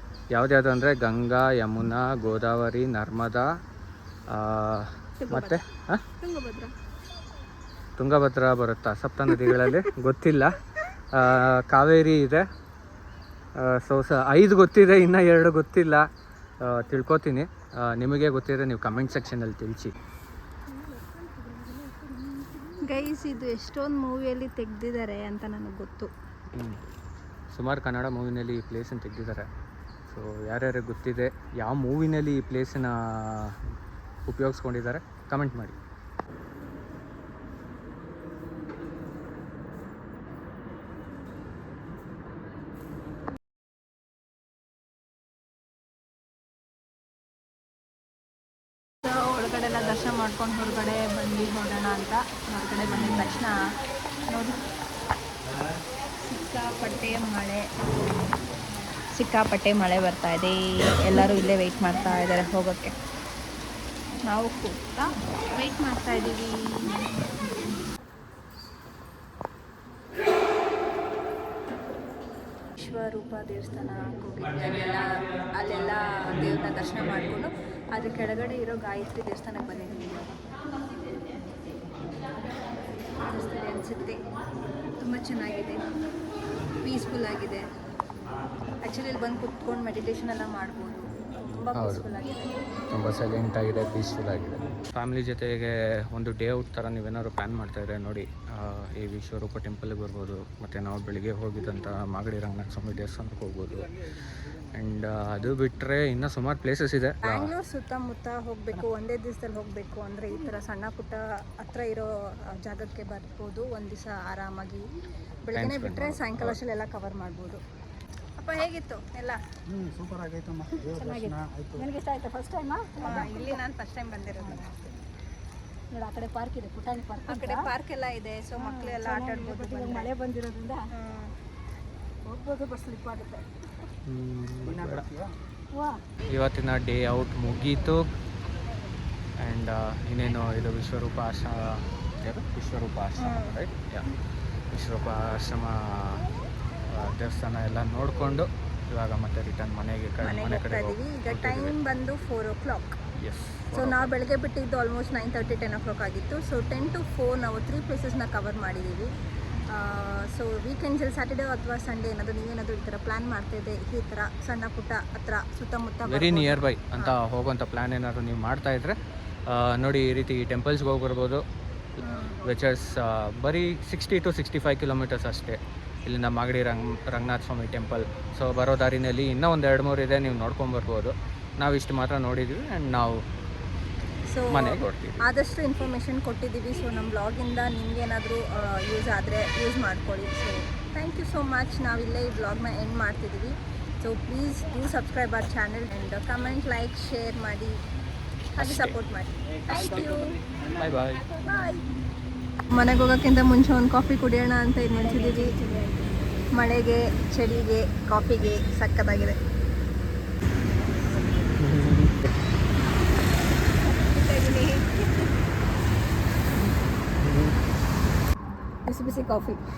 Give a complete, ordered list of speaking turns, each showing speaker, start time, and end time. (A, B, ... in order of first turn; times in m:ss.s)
0:00.3-0:03.6 A
0:04.3-0:06.0 A
0:05.2-0:05.6 B
0:06.2-0:06.7 B
0:08.0-0:12.5 A
0:09.4-0:09.7 B
0:13.6-0:16.1 A
0:16.6-0:19.9 A
0:21.4-0:22.8 C
0:22.8-0:26.1 B
0:26.5-0:26.8 A
0:27.5-0:29.5 A
0:30.1-0:33.6 A
0:34.3-0:35.8 A
0:49.0-0:53.6 B
0:52.9-0:53.3 A
0:54.3-0:54.6 B
0:56.2-0:58.2 B
0:59.0-1:03.0 B
1:04.3-1:07.0 B
1:12.8-1:20.4 B
1:23.2-1:24.2 B
1:25.0-1:25.8 B
1:26.8-1:27.7 B
1:28.8-1:32.6 B
1:31.7-1:32.1 A
1:32.9-1:44.1 A
1:44.7-1:47.5 A
1:47.2-1:54.9 B
1:55.4-1:57.6 B
1:55.5-1:56.6 A
1:58.4-1:59.4 B
1:59.7-2:01.9 D
2:00.8-2:03.6 C
2:03.0-2:04.8 B
2:04.4-2:04.8 C
2:05.9-2:07.7 C
2:07.2-2:10.1 B
2:08.6-2:10.9 C
2:10.9-2:11.3 B
2:12.3-2:13.4 C
2:14.1-2:15.0 A
2:14.6-2:15.4 D
2:15.7-2:16.0 C
2:16.3-2:18.0 A
2:19.4-2:24.2 A
2:23.2-2:23.6 B
2:24.7-2:26.2 A
2:26.9-2:31.8 A
2:30.2-2:33.0 B
2:33.2-2:34.1 A
2:33.7-2:39.1 B
2:39.7-2:47.2 B
2:46.1-2:51.4 A
2:52.0-2:52.5 B
2:52.4-3:03.2 A
3:04.2-3:17.8 B
3:04.5-3:05.2 A
3:18.6-3:20.4 B
3:18.6-3:19.0 A
3:20.8-3:21.3 A
3:21.4-3:21.9 B
3:22.7-3:25.6 B
3:25.0-3:26.0 C
3:26.5-3:29.4 B
3:31.6-3:32.2 A
3:33.9-3:35.3 B
3:38.9-3:39.6 C